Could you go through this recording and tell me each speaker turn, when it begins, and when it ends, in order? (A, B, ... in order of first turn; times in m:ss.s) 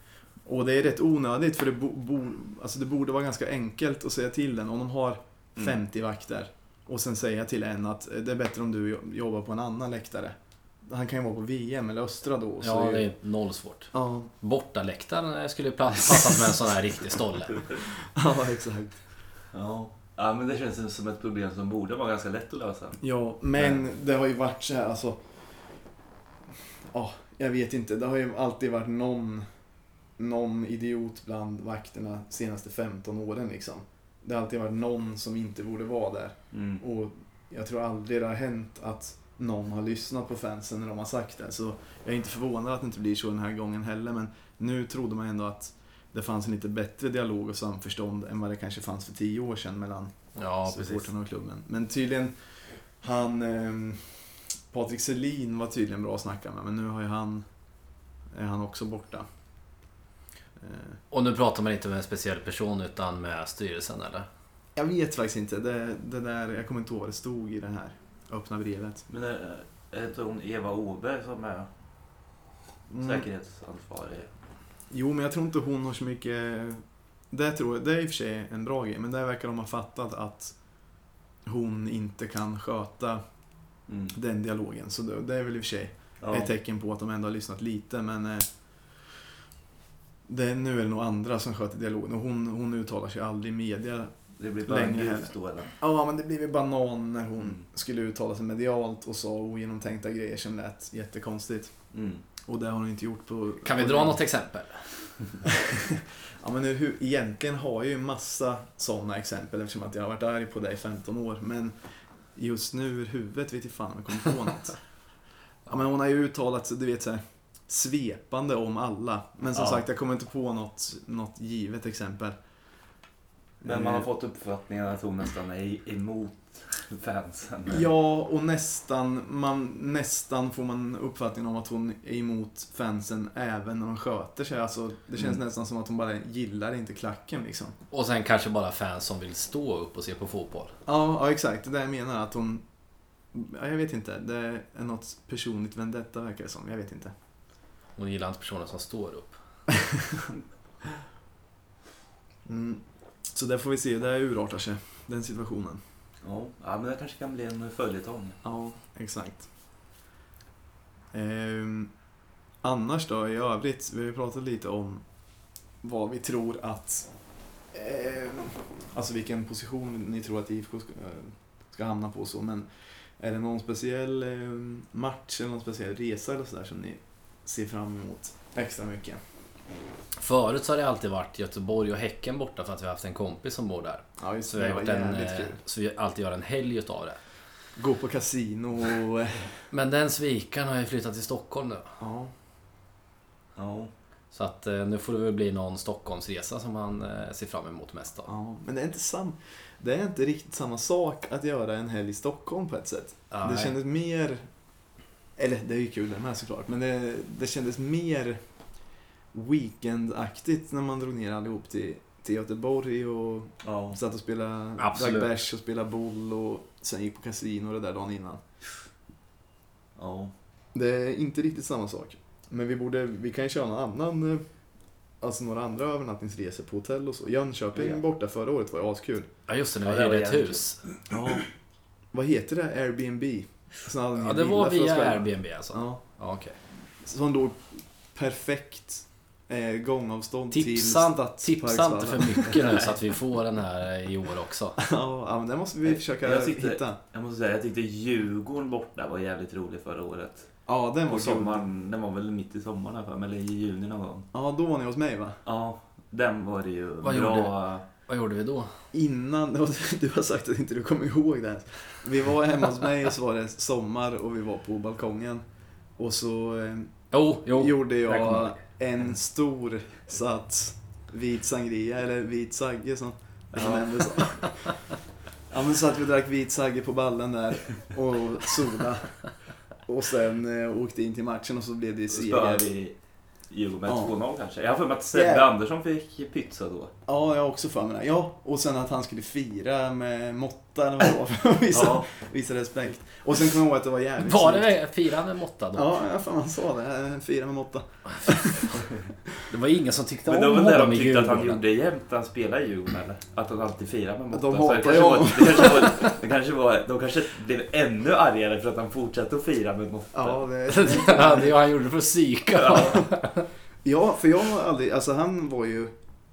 0:00.4-0:13.1 A
0:12.6-0:17.6 B
0:13.9-0:14.3 A
0:18.0-0:19.0 A
0:19.5-0:23.0 C
0:23.0-0:25.2 A
0:26.9-0:29.4 A
0:30.2-0:50.1 A
0:36.5-0:36.8 C
0:50.4-0:51.1 B
0:50.6-0:57.4 A
0:58.3-0:59.2 A
1:00.6-1:01.0 A
1:01.1-1:04.3 B
1:04.8-1:09.1 A
1:09.1-1:11.7 C
1:12.9-1:13.3 A
1:13.0-1:14.3 C
1:14.9-1:20.6 A
1:21.5-1:23.2 A
1:23.9-1:24.2 C
1:24.1-1:28.5 A
1:26.2-1:26.5 C
1:30.3-1:34.1 A
1:34.4-1:35.7 C
1:34.7-1:41.7 A
1:41.9-1:42.2 C
1:42.4-1:44.2 A
1:43.6-1:44.9 B
1:45.4-1:51.7 A
1:52.4-1:54.8 A
1:55.7-2:02.4 A
1:59.6-1:59.8 C
2:03.6-2:04.1 A
2:03.6-2:07.9 C
2:07.7-2:17.8 A
2:17.9-2:20.7 B
2:20.9-2:22.6 A
2:23.3-2:27.1 A
2:28.0-2:29.4 B
2:29.7-2:30.3 A
2:32.5-2:35.8 A
2:36.2-2:38.4 C
2:38.4-2:39.5 A
2:41.1-2:41.9 A
2:42.6-2:45.0 A
2:45.8-2:47.1 A
2:47.7-2:52.7 A
2:53.2-2:59.2 A
3:00.2-3:07.2 B
3:04.2-3:05.6 A
3:07.8-3:09.5 A
3:09.7-3:11.9 B
3:12.0-3:12.3 A
3:13.6-3:13.9 C
3:14.3-3:18.3 B
3:18.3-3:24.4 A
3:23.3-3:23.8 B
3:25.4-3:28.4 A
3:29.3-3:38.4 A
3:33.6-3:34.0 C
3:34.8-3:35.3 B
3:40.0-3:40.3 C
3:40.7-3:44.4 A
3:45.2-3:49.3 A
3:49.5-3:50.8 B
3:49.8-3:50.6 C
3:51.1-3:51.5 A
3:52.1-3:56.0 A
3:54.2-3:56.6 B
3:57.0-4:02.8 A
4:00.5-4:04.8 B
4:04.8-4:07.0 A
4:05.8-4:10.5 C
4:10.7-4:11.6 A
4:11.1-4:14.3 C
4:14.3-4:15.4 A
4:15.4-4:17.8 C
4:17.0-4:18.7 B
4:18.9-4:25.4 A
4:26.0-4:26.9 A
4:27.1-4:28.6 B
4:27.5-4:34.8 A
4:33.5-4:34.2 C
4:35.5-4:39.2 A
4:39.9-4:42.7 A
4:42.1-4:43.0 C
4:43.5-4:46.9 C
4:43.9-4:44.2 A
4:45.1-4:45.5 A
4:47.1-4:54.8 A
4:51.7-4:52.1 C
4:54.2-4:55.9 B
4:55.7-4:58.8 A
4:58.2-4:58.8 B
4:59.5-5:01.6 B
5:00.3-5:10.5 C
5:04.3-5:06.1 A
5:10.1-5:11.6 A
5:10.7-5:13.5 B
5:12.5-5:13.0 C
5:12.8-5:13.1 A
5:13.8-5:16.0 A